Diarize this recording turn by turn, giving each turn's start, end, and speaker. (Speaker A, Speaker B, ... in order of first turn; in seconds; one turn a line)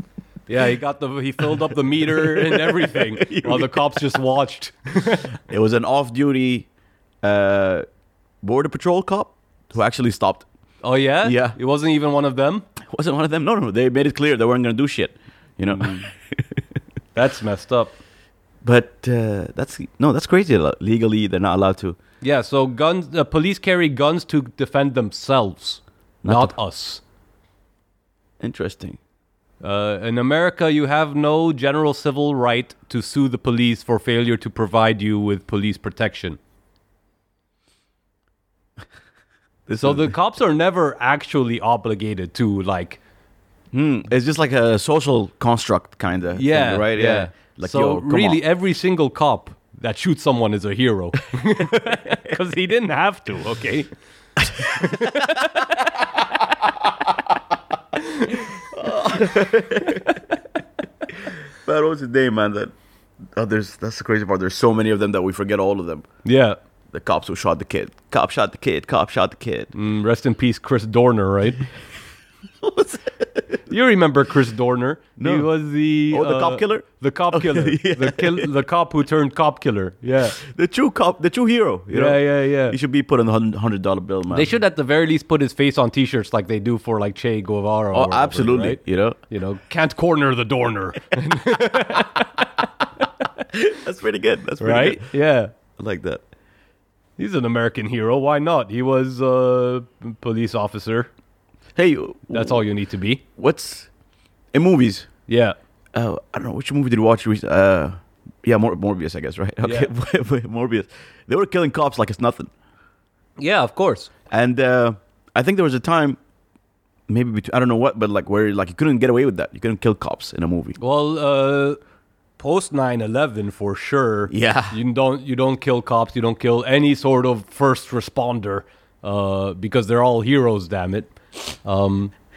Speaker A: 0.5-5.3
Speaker B: 2.0-4.0
Speaker B: 5.5-6.7
Speaker B: 7.2-7.8
Speaker B: 8.4-10.5
Speaker A: 10.8-12.7
Speaker B: 11.2-11.6
Speaker B: 12.9-16.6
Speaker A: 15.7-15.9
Speaker A: 17.1-17.9
Speaker B: 18.6-22.0
Speaker A: 22.2-27.0
Speaker B: 26.2-26.6
Speaker B: 28.4-29.0
Speaker A: 29.6-36.4
Speaker B: 39.7-40.1
Speaker A: 39.8-43.0
Speaker B: 43.7-48.4
Speaker A: 46.3-53.9
Speaker B: 54.4-55.5
Speaker A: 54.7-56.1
Speaker A: 58.0-58.4
Speaker B: 58.6-60.1
Speaker B: 61.2-62.7
Speaker B: 63.4-66.1
Speaker A: 66.2-66.6
Speaker B: 66.9-69.7
Speaker A: 69.7-71.6
Speaker B: 72.6-73.4
Speaker A: 73.7-80.4
Speaker B: 75.2-75.5
Speaker B: 76.1-78.5
Speaker B: 80.4-84.5
Speaker A: 81.9-82.8
Speaker A: 84.3-92.6
Speaker B: 87.9-89.2
Speaker B: 93.5-95.1
Speaker A: 94.6-95.5
Speaker B: 95.8-96.2
Speaker A: 97.2-101.1
Speaker B: 101.8-102.6
Speaker A: 102.3-103.2
Speaker B: 103.4-103.9
Speaker B: 104.5-105.1
Speaker A: 105.3-105.6
Speaker B: 105.9-112.5
Speaker A: 109.6-109.9
Speaker A: 113.4-114.1
Speaker B: 114.3-116.2
Speaker B: 117.1-120.8
Speaker A: 120.8-121.8
Speaker A: 122.4-132.1
Speaker B: 124.3-124.8